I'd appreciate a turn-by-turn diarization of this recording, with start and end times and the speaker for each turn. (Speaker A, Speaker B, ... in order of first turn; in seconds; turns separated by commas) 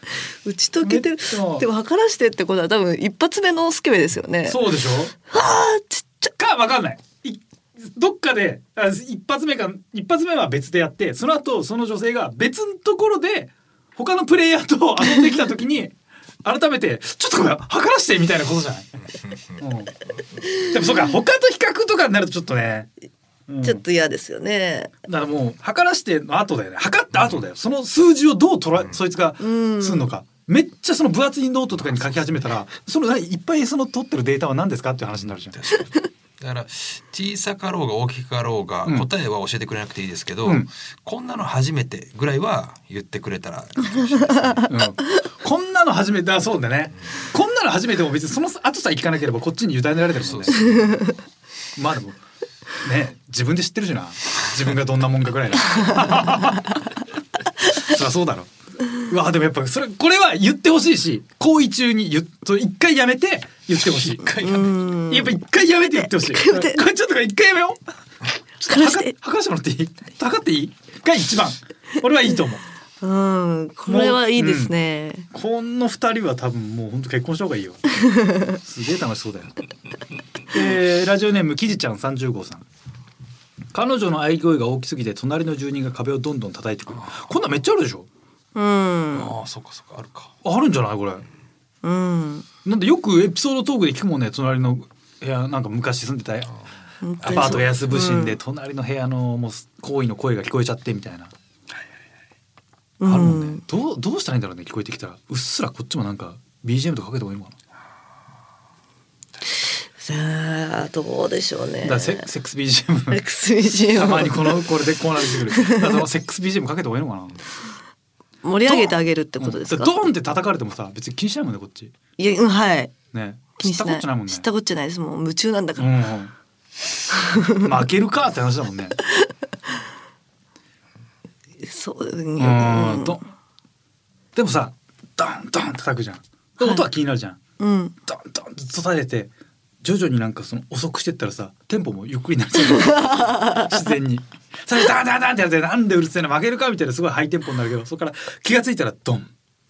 Speaker A: 0.4-4.7, Speaker B: 0.8-1.6, Speaker B: 4.5-5.1, Speaker A: 5.3-6.3, Speaker B: 6.4-18.9, Speaker C: 19.2-19.6, Speaker B: 19.6-19.9, Speaker B: 20.5-22.9, Speaker B: 23.5-23.8, Speaker A: 23.6-24.9, Speaker B: 25.1-35.6, Speaker A: 29.4-30.1, Speaker C: 35.3-44.7, Speaker B: 44.7-50.9, Speaker C: 50.2-51.1, Speaker B: 51.8-52.2, Speaker B: 52.8-56.9, Speaker B: 57.6-64.3, Speaker C: 64.0-64.8, Speaker A: 64.4-65.4, Speaker B: 65.1-67.8, Speaker A: 65.9-66.8, Speaker B: 68.6-72.6, Speaker A: 68.7-69.1, Speaker A: 73.0-75.3, Speaker B: 73.9-74.7, Speaker B: 75.3-78.0, Speaker A: 78.0-78.6, Speaker B: 78.6-79.5, Speaker B: 80.5-82.6, Speaker B: 83.7-88.1, Speaker A: 88.5-89.3, Speaker C: 89.1-90.3, Speaker B: 90.4-91.2, Speaker A: 91.8-92.5, Speaker B: 92.6-96.5, Speaker A: 97.0-98.4, Speaker C: 97.2-97.7, Speaker B: 97.3-101.3, Speaker A: 103.0-103.6, Speaker B: 103.0-107.5, Speaker A: 110.0-112.2, Speaker B: 111.8-113.2, Speaker A: 113.1-114.7, Speaker B: 114.0-117.4, Speaker A: 115.5-116.0, Speaker A: 118.4-119.9, Speaker B: 118.7-121.9, Speaker A: 122.2-122.9, Speaker B: 123.1-124.5, Speaker A: 123.6-125.9, Speaker B: 125.8-126.3, Speaker A: 127.1-127.6, Speaker B: 127.6-129.0, Speaker A: 131.6-133.2, Speaker B: 132.4-133.2, Speaker B: 134.3-137.4, Speaker A: 137.6-137.9, Speaker B: 138.1-139.3, Speaker B: 139.8-149.3, Speaker A: 142.7-143.7